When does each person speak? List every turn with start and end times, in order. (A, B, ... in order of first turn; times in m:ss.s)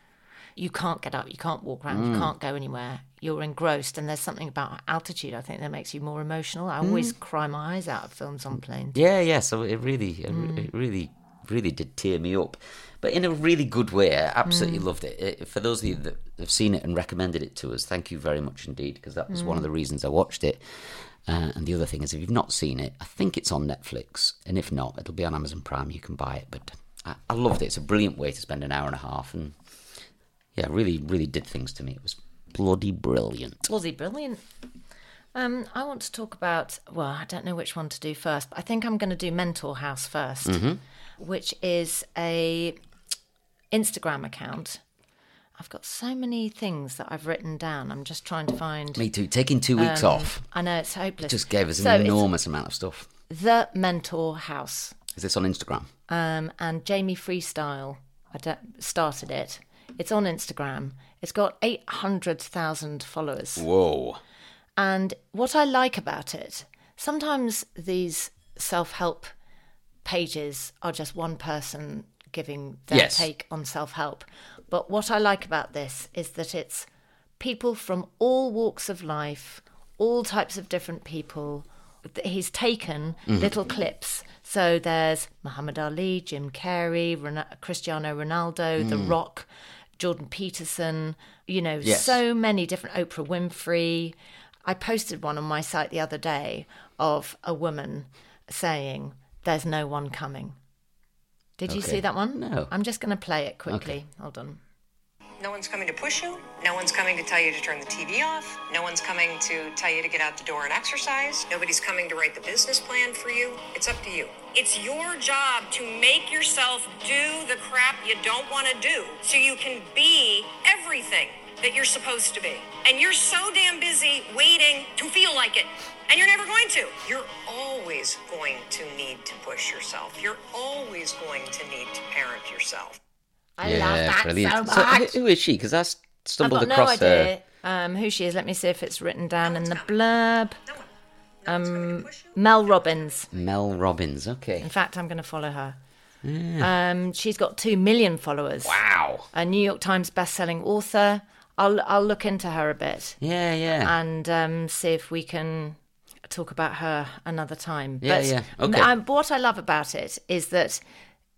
0:00.6-0:09.0 A
0:01.9-0:02.3 B
0:06.8-0:07.1 B
0:08.9-0:20.6 B
0:10.3-0:10.7 A
0:14.4-0:14.8 A
0:19.3-0:19.6 A
0:21.2-0:29.6 B
0:30.5-0:33.6 B
0:33.6-0:34.4 A
0:35.3-0:40.6 A
0:40.4-0:40.8 B
0:41.2-0:42.8 A
0:43.7-0:44.8 A
0:45.6-0:49.0 A
0:48.9-0:50.4 B
0:49.8-0:52.2 A
0:51.2-0:53.1 B
0:53.3-0:54.9 A
0:55.1-0:55.9 B
0:56.1-1:03.6 A
1:03.6-1:04.2 B
1:04.8-1:09.3 A
1:10.0-1:16.9 A
1:12.9-1:13.3 B
1:17.4-1:40.6 A
1:23.3-1:23.5 B
1:28.8-1:29.1 B
1:31.8-1:32.2 B
1:41.6-1:44.6 A
1:41.7-1:42.7 B
1:43.7-1:44.0 B
1:45.4-2:13.0 C
2:13.6-2:15.2 A
2:13.6-2:17.3 B
2:16.4-2:20.6 A
2:19.4-2:19.9 C
2:21.4-2:22.3 C
2:21.4-2:23.3 A
2:23.3-2:24.7 B
2:24.6-2:25.8 A
2:26.2-2:26.7 B
2:26.6-2:28.8 A
2:28.6-2:29.3 B
2:29.3-2:33.2 A
2:33.2-2:33.9 B
2:33.8-2:35.8 A
2:36.3-2:40.8 A
2:38.0-2:38.9 B